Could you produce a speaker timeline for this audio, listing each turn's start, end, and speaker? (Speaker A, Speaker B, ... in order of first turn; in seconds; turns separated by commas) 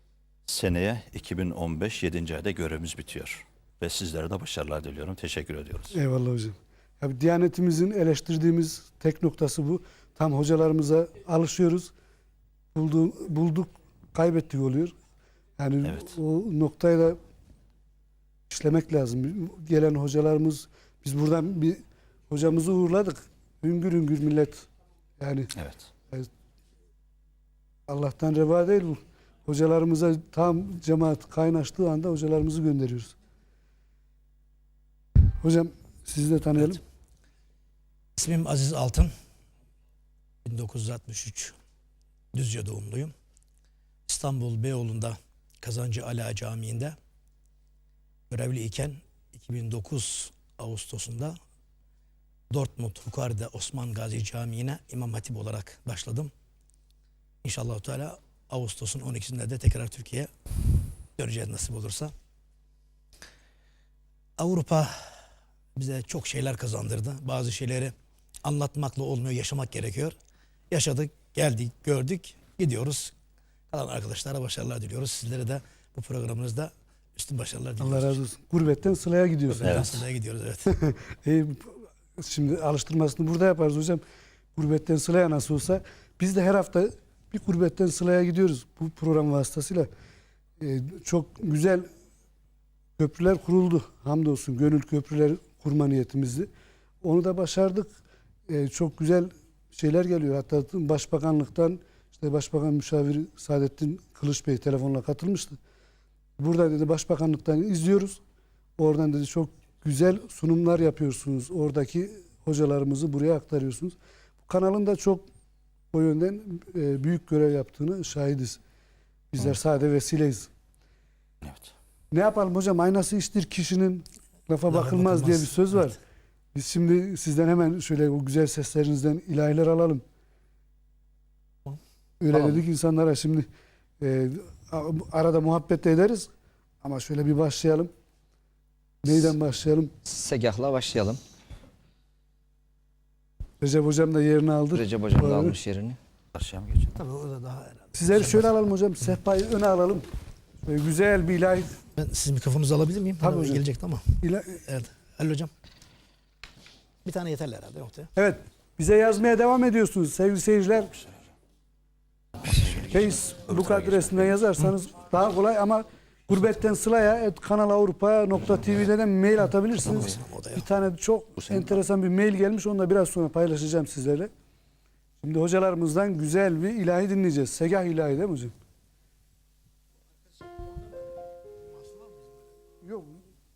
Speaker A: 0.5-6.0, Speaker B: 5.9-11.9, Speaker B: 12.8-14.9, Speaker B: 15.6-17.2, Speaker A: 15.8-16.2, Speaker B: 18.5-24.7, Speaker B: 25.2-25.5, Speaker A: 25.6-25.9, Speaker B: 27.9-33.1, Speaker B: 35.4-36.8, Speaker C: 38.2-39.1, Speaker C: 40.5-41.5, Speaker C: 42.3-43.1, Speaker C: 44.1-47.0, Speaker C: 48.3-51.4, Speaker C: 52.5-56.3, Speaker C: 57.4-60.3, Speaker C: 61.2-62.1, Speaker C: 64.4-64.9, Speaker C: 65.8-70.2, Speaker C: 70.7-73.1, Speaker C: 73.7-78.2, Speaker B: 77.8-79.9, Speaker C: 79.5-80.7, Speaker A: 79.7-80.0, Speaker B: 80.7-84.0, Speaker B: 84.5-89.9, Speaker B: 90.6-91.9, Speaker B: 93.0-96.5, Speaker B: 97.0-97.9, Speaker B: 98.5-105.6, Speaker B: 106.4-108.2, Speaker B: 108.8-115.2, Speaker B: 115.9-118.6, Speaker B: 119.3-120.5, Speaker A: 121.4-121.7, Speaker B: 122.1-126.0, Speaker C: 124.7-125.9, Speaker B: 126.5-130.0, Speaker B: 132.2-133.5, Speaker D: 132.3-132.6, Speaker B: 134.0-136.3, Speaker B: 136.8-137.9, Speaker B: 139.0-139.9, Speaker D: 140.0-141.2, Speaker B: 143.6-145.6, Speaker D: 144.7-146.0, Speaker A: 146.3-146.9, Speaker C: 146.9-148.5, Speaker B: 147.9-150.1, Speaker B: 150.6-151.8, Speaker C: 152.0-155.5, Speaker B: 153.2-153.7, Speaker B: 154.2-154.6, Speaker C: 157.1-158.1, Speaker B: 158.2-161.0, Speaker A: 162.5-164.5, Speaker B: 162.7-174.3, Speaker C: 169.9-170.6, Speaker A: 171.4-171.8, Speaker B: 175.2-178.5, Speaker B: 182.8-183.2